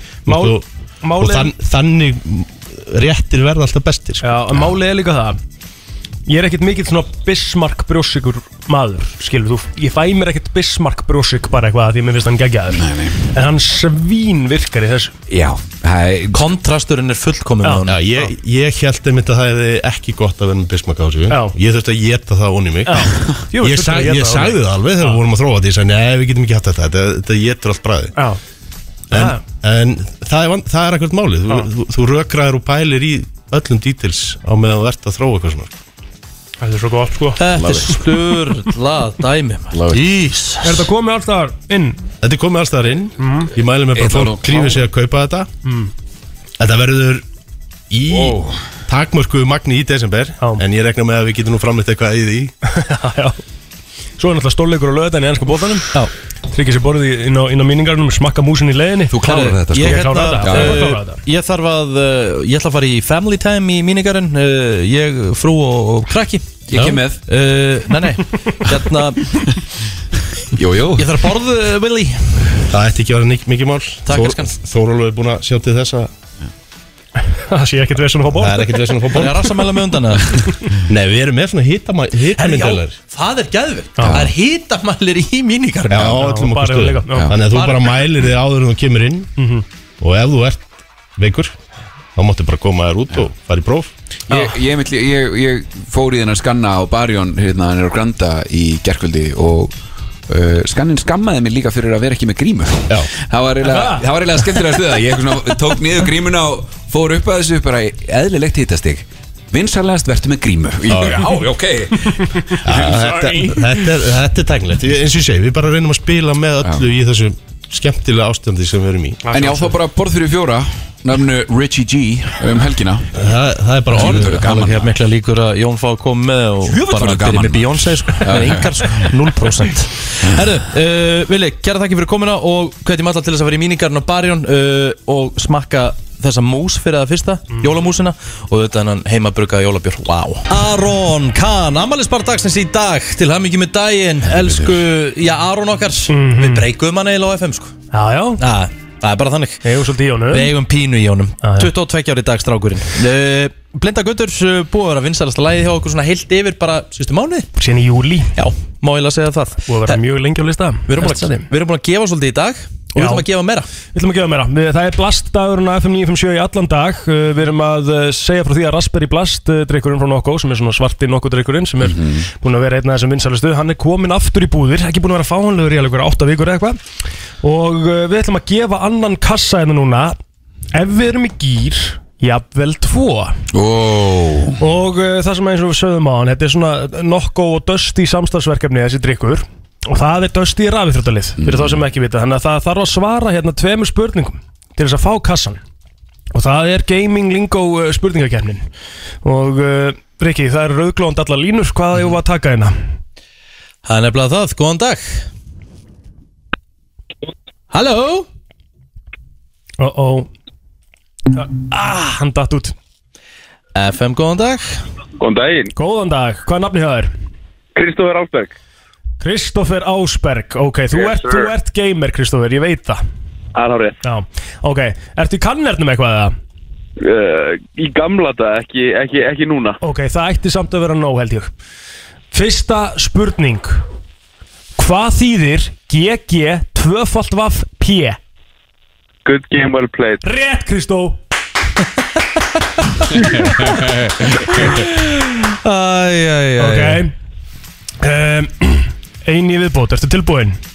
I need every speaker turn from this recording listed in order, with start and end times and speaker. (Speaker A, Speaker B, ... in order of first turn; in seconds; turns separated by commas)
Speaker A: 0.2-0.6, Speaker B: 0.3-1.5, Speaker A: 1.1-4.3, Speaker B: 4.2-5.4, Speaker B: 6.3-15.1, Speaker C: 12.7-13.2, Speaker C: 15.3-16.5, Speaker D: 16.3-18.0, Speaker A: 17.9-28.1, Speaker B: 21.3-21.5, Speaker B: 22.9-25.2, Speaker A: 29.1-35.7, Speaker B: 29.1-29.4, Speaker B: 36.6-37.4, Speaker D: 37.4-40.9, Speaker C: 37.5-38.1, Speaker C: 39.7-40.1, Speaker B: 40.6-42.0, Speaker A: 42.2-45.5, Speaker B: 43.2-43.5, Speaker C: 43.9-44.8, Speaker B: 45.6-45.9, Speaker A: 46.6-47.2, Speaker A: 47.9-52.5, Speaker C: 48.1-48.6, Speaker B: 52.7-53.4, Speaker B: 54.2-55.9, Speaker B: 56.5-61.2, Speaker C: 59.1-60.8, Speaker D: 59.2-66.6, Speaker C: 66.7-67.2, Speaker D: 67.2-69.4, Speaker C: 70.5-71.1, Speaker D: 71.0-72.6, Speaker A: 72.7-76.1, Speaker D: 74.0-74.5, Speaker B: 77.4-79.0, Speaker A: 78.3-79.6, Speaker D: 79.1-80.4, Speaker A: 80.9-83.0, Speaker D: 82.3-86.2, Speaker B: 84.0-84.3, Speaker C: 84.0-84.3, Speaker A: 85.9-89.3, Speaker B: 86.2-87.3, Speaker D: 87.5-88.1, Speaker B: 89.4-89.6, Speaker A: 90.0-91.5, Speaker A: 92.2-93.9, Speaker C: 94.3-99.7, Speaker C: 100.3-113.8, Speaker B: 103.6-104.0, Speaker A: 110.9-111.3, Speaker A: 112.6-119.3, Speaker B: 119.2-119.7, Speaker C: 119.3-123.1, Speaker A: 123.1-124.6, Speaker D: 123.9-147.7, Speaker C: 124.0-124.9, Speaker C: 126.7-129.1, Speaker C: 144.2-144.8, Speaker B: 146.1-146.7, Speaker B: 147.9-148.4, Speaker D: 148.4-149.7, Speaker B: 149.6-150.5, Speaker D: 150.3-157.5, Speaker B: 151.4-151.7, Speaker B: 157.6-158.3, Speaker D: 158.3-160.0, Speaker B: 159.7-161.5, Speaker D: 160.9-163.7, Speaker B: 163.0-163.2, Speaker B: 163.9-176.8, Speaker C: 171.8-172.2, Speaker B: 177.4-180.2, Speaker B: 180.7-183.4, Speaker C: 183.5-184.6, Speaker B: 184.6-195.6, Speaker C: 191.4-191.8, Speaker B: 196.3-198.6, Speaker B: 199.2-202.8, Speaker D: 203.8-205.2, Speaker D: 207.7-208.3, Speaker B: 209.8-210.3, Speaker B: 211.3-212.7, Speaker D: 213.7-214.8, Speaker E: 215.2-215.7, Speaker B: 215.8-217.1, Speaker E: 217.7-218.5, Speaker B: 219.2-223.0, Speaker E: 220.9-221.5, Speaker E: 223.5-223.9, Speaker B: 224.0-226.3, Speaker E: 227.0-229.8, Speaker B: 229.8-231.5, Speaker B: 232.3-233.8, Speaker B: 234.8-238.2, Speaker E: 239.2-240.2, Speaker B: 240.2-241.2, Speaker C: 243.3-244.1, Speaker D: 244.5-247.0, Speaker B: 246.6-247.1, Speaker B: 248.0-250.6